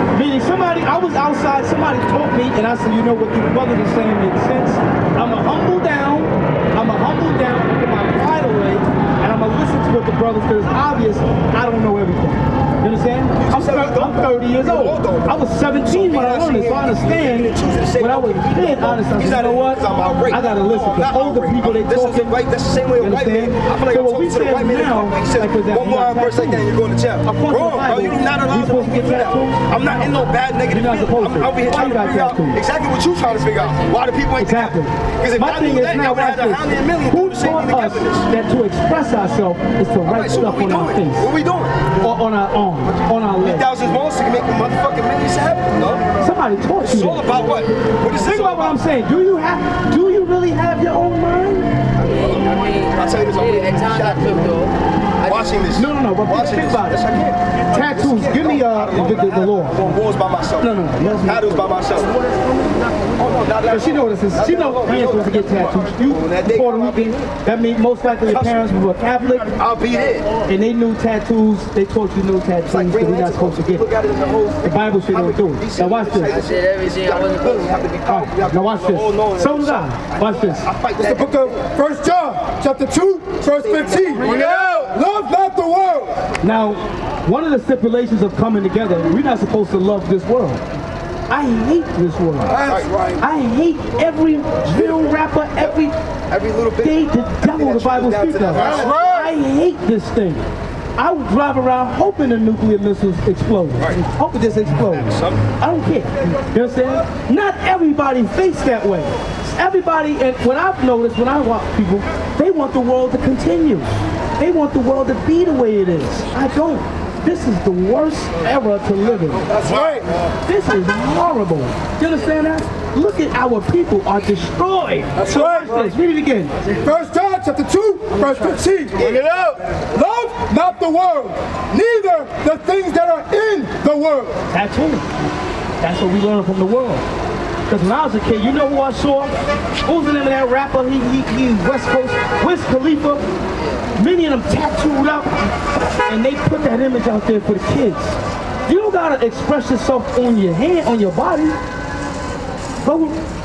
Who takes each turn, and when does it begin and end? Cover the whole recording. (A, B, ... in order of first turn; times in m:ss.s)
0:00.1-0:22.4 A
0:13.3-0:38.3 B
0:23.0-0:26.7 A
0:27.2-0:32.6 A
0:33.6-0:34.0 C
0:34.4-0:41.3 A
0:40.0-0:41.9 B
0:42.0-0:43.7 A
0:43.4-0:46.1 B
0:46.2-0:47.3 A
0:46.8-0:48.8 B
0:48.1-0:51.7 A
0:52.0-0:55.6 C
0:52.0-0:54.5 B
0:55.2-1:02.2 B
0:55.7-0:57.0 A
0:57.7-1:00.0 A
1:00.6-1:01.7 A
1:03.1-1:07.2 B
1:03.6-1:09.6 A
1:08.2-1:08.7 B
1:09.5-1:10.4 B
1:10.4-1:13.9 A
1:12.6-1:21.6 B
1:14.6-1:16.3 A
1:16.2-1:17.9 C
1:18.0-1:20.7 A
1:21.0-1:26.2 D
1:23.5-1:24.9 B
1:26.4-1:30.6 A
1:31.3-1:32.5 A
1:32.5-1:33.2 D
1:32.5-1:33.2 B
1:33.2-1:36.0 A
1:34.7-1:35.7 B
1:36.3-1:39.1 B
1:36.8-1:40.4 A
1:38.5-1:39.3 D
1:41.0-1:59.4 A
1:44.8-1:45.4 B
1:59.5-2:00.3 B
1:59.6-2:00.1 D
2:00.4-2:06.6 A
2:05.2-2:05.9 D
2:05.2-2:05.6 B
2:06.8-2:14.4 D
2:09.0-2:09.6 B
2:14.5-2:15.0 A
2:15.8-2:17.0 A
2:17.7-2:19.3 A
2:19.8-2:23.2 A
2:23.6-2:23.9 C
2:24.0-2:25.4 A
2:26.1-2:31.6 A
2:32.8-2:33.2 A